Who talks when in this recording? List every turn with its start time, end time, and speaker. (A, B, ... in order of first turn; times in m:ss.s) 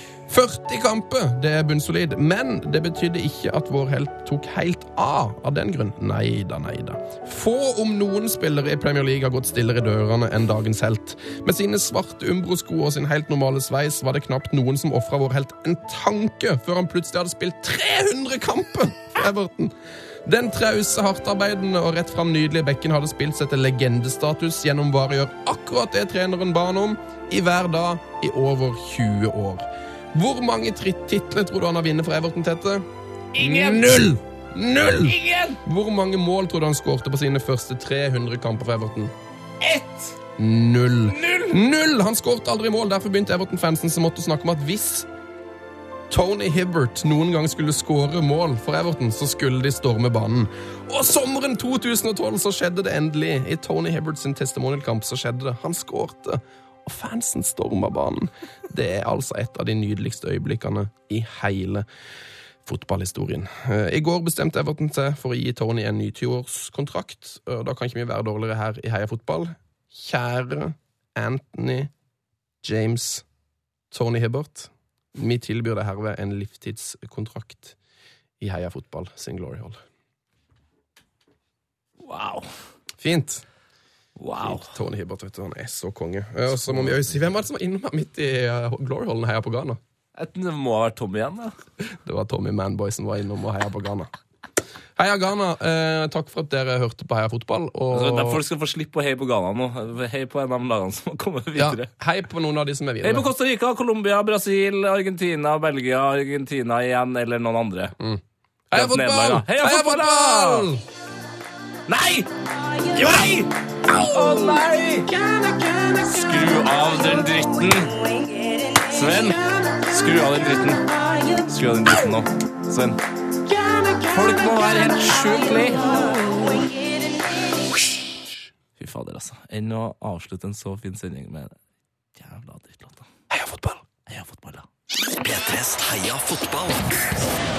0:00.3-0:32.8 A
0:33.3-0:34.1 B
0:33.4-0:39.1 A
0:34.9-0:35.6 B
0:39.6-0:40.1 B
0:40.4-0:45.1 A
0:41.1-0:41.6 B
0:46.1-1:01.8 A
1:02.6-1:11.9 A
1:12.6-1:13.2 A
1:13.9-1:17.8 A
1:18.4-1:19.8 A
1:22.0-1:22.5 B
1:23.0-1:23.4 A
1:24.2-1:24.7 B
1:24.4-1:29.8 A
1:26.5-1:27.2 B
1:30.1-1:31.6 B
1:31.8-1:34.1 A
1:35.0-1:38.4 A
1:37.9-1:41.9 B
1:41.6-1:43.3 A
1:43.0-1:47.9 B
1:48.0-1:50.8 A
1:48.7-1:50.7 B
1:51.9-1:52.3 B
1:52.9-1:55.1 B
1:55.1-1:56.4 A
1:56.0-1:58.0 B
1:58.9-2:00.8 B
2:01.4-2:03.0 B
2:03.5-2:05.0 A
2:04.1-2:05.9 B
2:08.8-2:11.6 B
2:12.1-2:13.1 B
2:13.3-2:13.8 A
2:14.0-2:14.7 B
2:15.2-2:17.1 C